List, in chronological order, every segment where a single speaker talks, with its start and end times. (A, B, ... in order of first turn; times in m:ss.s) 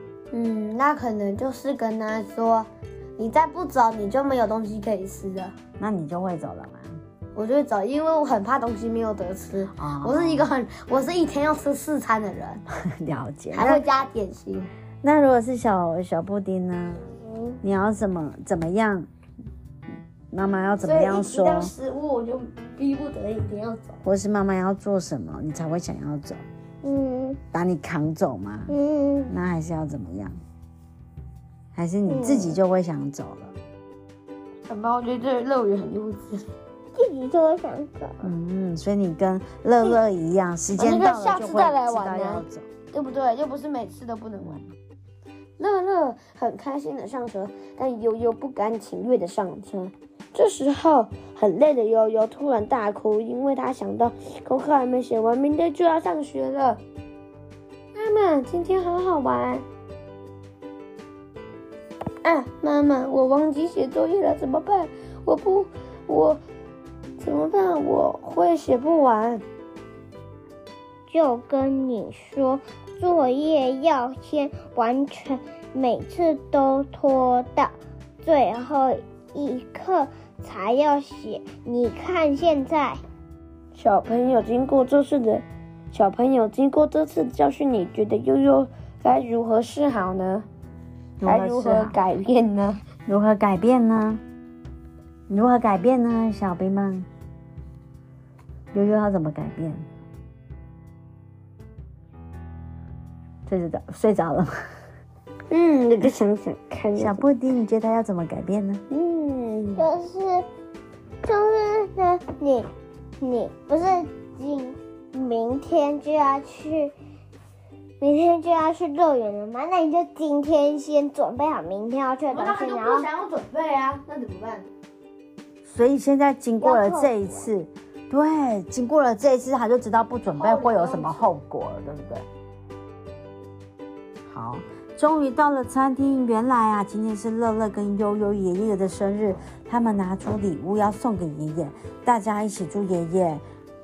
0:00.3-0:05.5 A
0:05.8-0:07.0 B
0:07.4-0:12.6 A
0:09.8-0:10.5 B
0:12.8-0:13.8 B
0:13.5-0:14.7 A
0:15.0-0:17.1 B
0:17.2-0:17.6 C
0:17.6-0:19.1 B
0:20.3-0:21.7 B
0:20.8-0:24.0 A
0:24.0-0:26.4 B
0:26.8-0:27.4 C
0:27.5-0:28.7 B
0:28.7-0:29.3 C
0:29.3-0:30.4 B
0:31.7-0:33.5 B
0:32.1-0:32.6 C
0:34.7-0:36.4 A
0:36.9-0:38.3 C
0:38.2-0:42.7 B
0:40.8-0:44.6 A
0:44.4-0:44.6 B
0:45.6-0:56.8 A
0:57.9-0:59.6 A
1:02.2-1:06.4 A
1:07.2-1:09.4 A
1:11.1-1:23.0 C
1:23.7-1:30.4 A
1:31.2-1:32.0 B
1:31.2-1:32.8 A
1:33.0-1:34.2 B
1:35.3-1:37.1 B
1:38.7-1:39.9 B
1:43.4-1:44.7 B
1:45.5-1:47.2 A
1:47.0-1:48.8 B
1:48.9-1:49.8 A
1:49.8-1:50.4 C
1:51.2-1:52.7 C
1:53.2-1:56.9 C
1:58.0-2:03.0 C
2:02.3-2:04.6 A
2:05.6-2:12.2 B
2:06.6-2:07.1 C
2:10.3-2:11.3 A
2:14.3-2:23.4 B